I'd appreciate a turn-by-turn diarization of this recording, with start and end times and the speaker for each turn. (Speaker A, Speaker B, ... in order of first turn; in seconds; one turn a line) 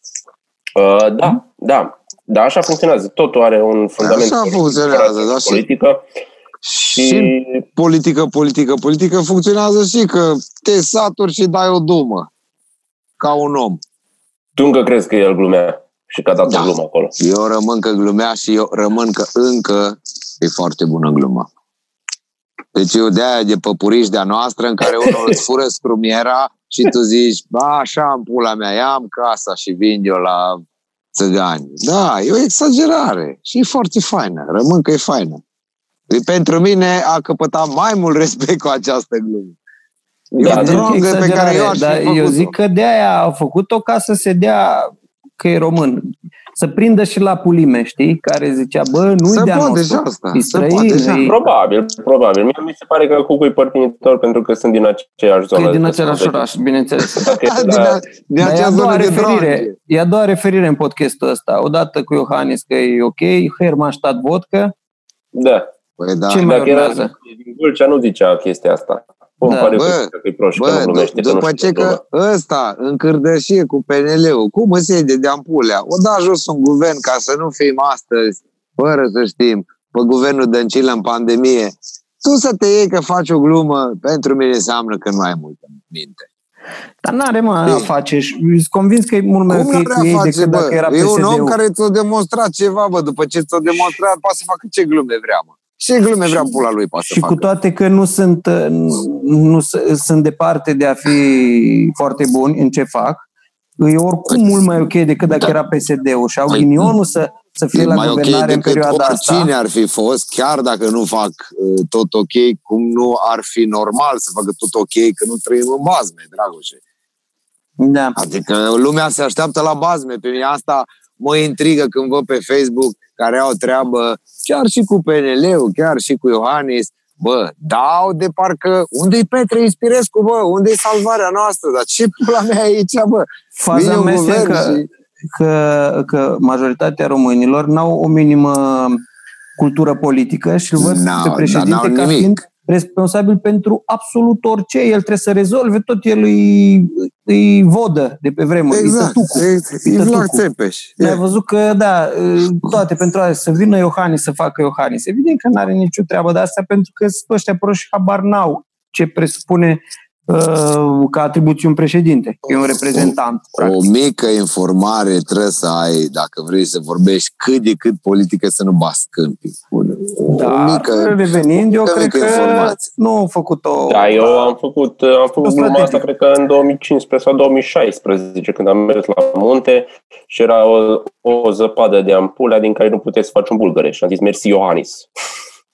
Speaker A: 0.8-6.0
Speaker B: 4.0-5.6
Speaker B: 6.6-12.3
Speaker A: 7.0-7.6
Speaker B: 13.2-13.8
Speaker A: 14.6-17.1
Speaker B: 16.5-21.5
Speaker B: 22.7-30.6
Speaker A: 25.0-25.4
Speaker B: 31.1-35.4
Speaker B: 36.1-39.5
Speaker B: 40.3-42.5
Speaker A: 40.4-40.9
Speaker C: 40.4-51.3
Speaker B: 49.3-51.3
Speaker A: 51.2-56.4
Speaker C: 55.5-57.2
Speaker A: 57.1-58.0
Speaker B: 57.2-59.7
Speaker C: 58.4-64.7
Speaker A: 65.3-65.7
Speaker B: 66.0-66.5
Speaker C: 66.3-67.1
Speaker A: 66.4-72.0
Speaker C: 69.5-69.8
Speaker B: 69.7-86.3
Speaker C: 87.0-91.6
Speaker B: 89.5-97.4
Speaker C: 97.0-103.2
Speaker C: 103.8-109.5
Speaker B: 107.7-116.8
Speaker C: 117.8-118.2
Speaker B: 118.2-134.8
Speaker C: 133.6-139.0
Speaker C: 139.6-150.4
Speaker B: 140.8-142.3
Speaker B: 148.7-151.2
Speaker C: 151.0-163.8
Speaker B: 162.9-172.8
Speaker C: 170.3-174.5
Speaker A: 173.9-185.1
Speaker C: 175.4-176.0